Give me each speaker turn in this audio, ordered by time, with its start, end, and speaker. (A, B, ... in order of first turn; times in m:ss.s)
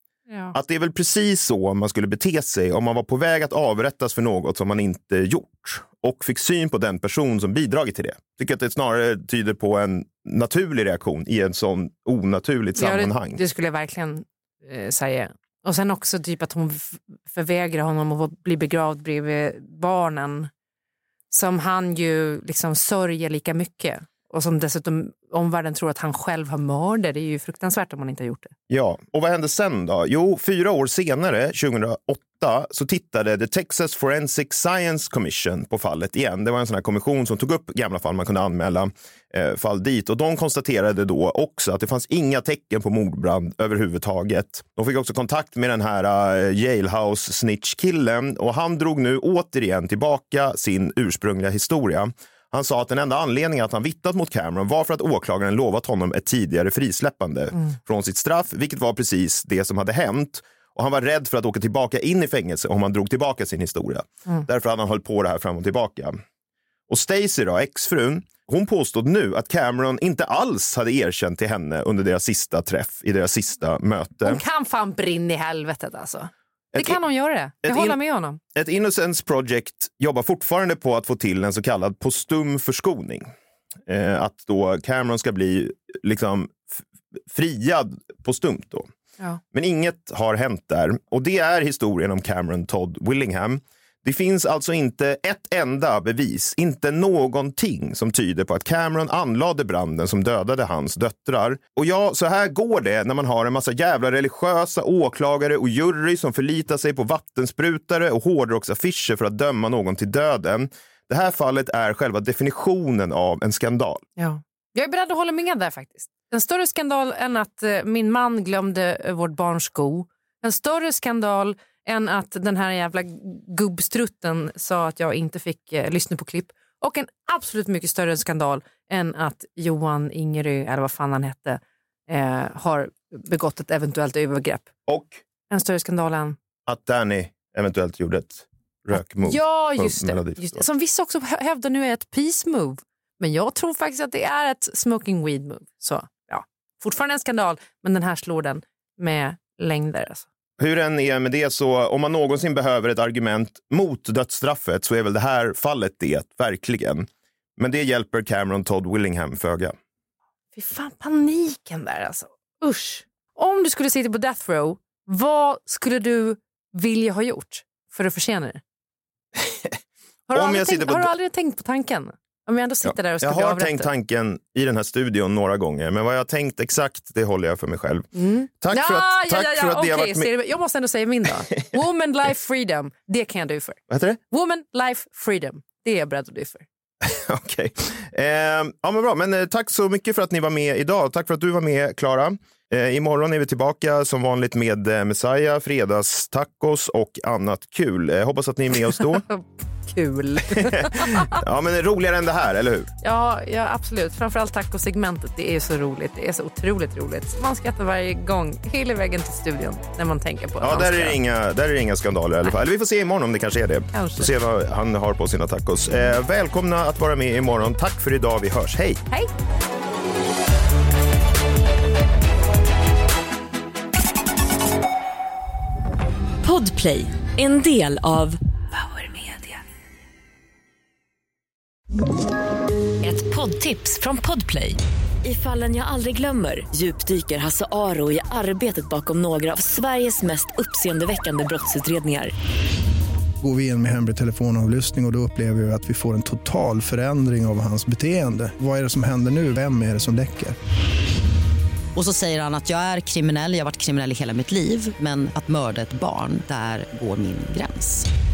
0:00.3-0:00.5 A
0:00.5-0:13.4 B
0:12.8-0:20.5 A
0:21.3-0:28.5 A
0:28.7-1:06.2 B
1:06.9-1:14.4 B
1:14.2-1:18.4 A
1:16.7-1:17.0 B
1:17.6-1:18.0 B
1:18.5-1:23.3 B
1:23.9-1:28.9 B
1:29.5-1:54.0 B
1:54.2-2:14.7 A
2:14.9-2:15.2 B
2:15.5-2:16.4 A
2:16.6-2:20.6 B
2:18.9-2:30.2 A
2:30.6-2:39.8 B
2:40.5-2:48.6 A
2:49.4-2:49.8 B
2:50.3-2:53.9 A
2:50.3-2:51.1 B
2:52.8-2:58.1 B
2:58.1-3:06.6 A
2:58.6-3:00.3 B
3:03.9-3:04.2 B
3:07.0-3:19.2 B
3:19.3-3:21.4 A
3:20.5-3:22.9 B
3:23.0-3:31.2 A
3:30.6-3:39.0 B
3:33.9-3:34.3 A
3:46.4-3:49.6 C
3:53.0-4:02.3 C
4:03.4-4:10.6 D
4:11.9-4:18.1 E